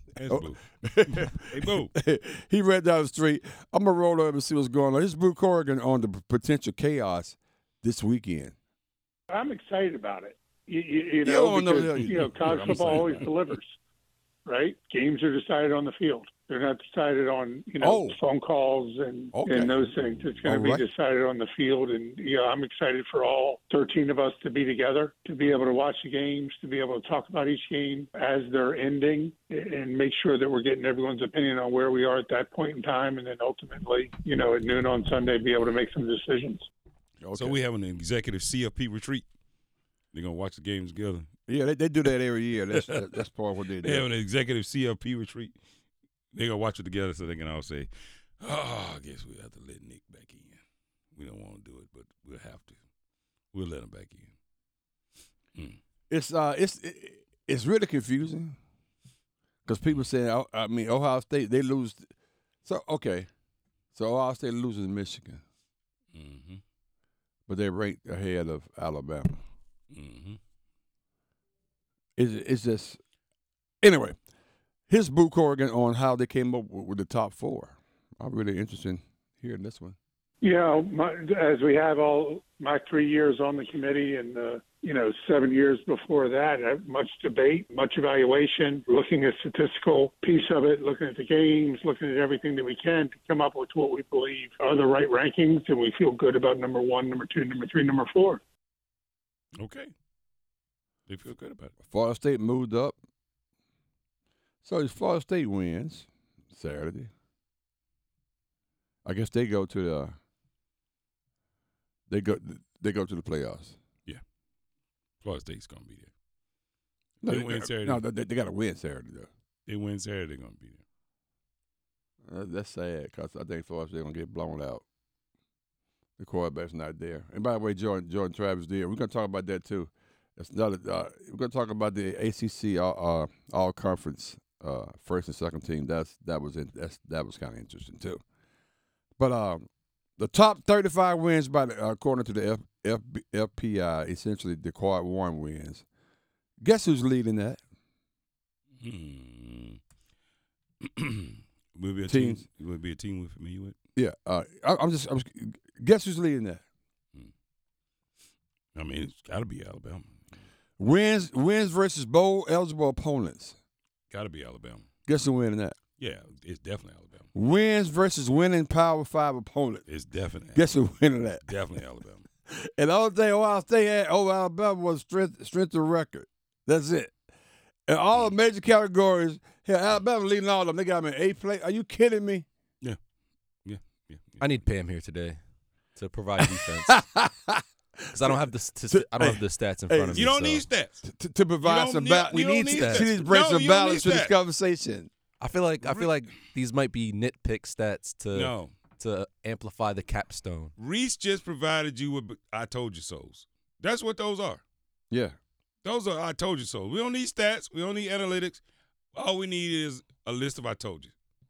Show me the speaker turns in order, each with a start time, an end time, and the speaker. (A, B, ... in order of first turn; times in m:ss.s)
0:00.2-0:01.9 A
0:00.3-0:08.5 B
0:09.3-0:13.7 C
0:11.2-0:13.3 B
0:12.0-0:13.3 A
0:14.4-0:36.7 C
0:17.8-0:18.2 B
0:19.3-0:20.8 B
0:37.2-0:37.6 B
0:37.3-0:39.2 A
0:40.1-0:41.3 A
0:41.5-0:44.0 B
0:43.8-0:45.5 A
0:46.3-0:50.6 A
0:51.2-0:52.7 A
0:53.5-0:54.3 A
0:56.1-0:58.6 B
0:59.6-1:02.1 B
1:02.6-1:03.3 B
1:03.9-1:05.4 B
1:06.1-1:06.6 A
1:07.5-1:09.4 B
1:09.9-1:10.4 A
1:12.2-1:13.0 B
1:13.8-1:14.2 B
1:14.9-1:20.0 B
1:20.4-1:38.4 C
1:39.6-1:39.9 A
1:41.1-1:41.7 A
1:41.9-1:42.9 B
1:44.6-1:47.1 B
1:49.0-1:50.1 B
1:52.1-1:53.8 B
1:55.2-1:56.1 A
1:57.2-1:59.3 B
1:57.2-1:58.0 A
1:59.7-2:00.8 A
2:02.2-2:04.8 B
2:06.2-2:18.2 B
2:19.2-2:19.6 B
2:20.2-2:25.8 B
2:26.6-2:27.6 B
2:28.8-2:29.8 A
2:30.8-2:33.8 A
2:32.1-2:32.4 B
2:34.0-2:36.6 B
2:38.7-2:40.1 A
2:40.8-2:43.6 B
2:44.1-2:44.8 A
2:45.1-2:45.8 B
2:46.0-2:47.2 A
2:47.3-2:49.8 B
2:49.9-2:50.6 A
2:50.5-2:51.6 B
2:51.4-2:52.2 A
2:52.5-2:57.1 B
2:57.9-3:02.4 B
3:03.6-3:04.5 A
3:04.4-3:05.4 D
3:06.0-3:07.0 D
3:06.4-3:10.4 B
3:08.1-3:10.6 D
3:10.1-3:11.0 A
3:11.0-3:15.1 B
3:11.6-3:14.3 A
3:12.5-3:13.1 D
3:15.4-3:20.7 D
3:15.8-3:16.1 A
3:18.3-3:18.7 A
3:20.8-3:24.6 A
3:25.1-3:25.4 B
3:25.8-3:28.6 A
3:29.1-3:31.1 A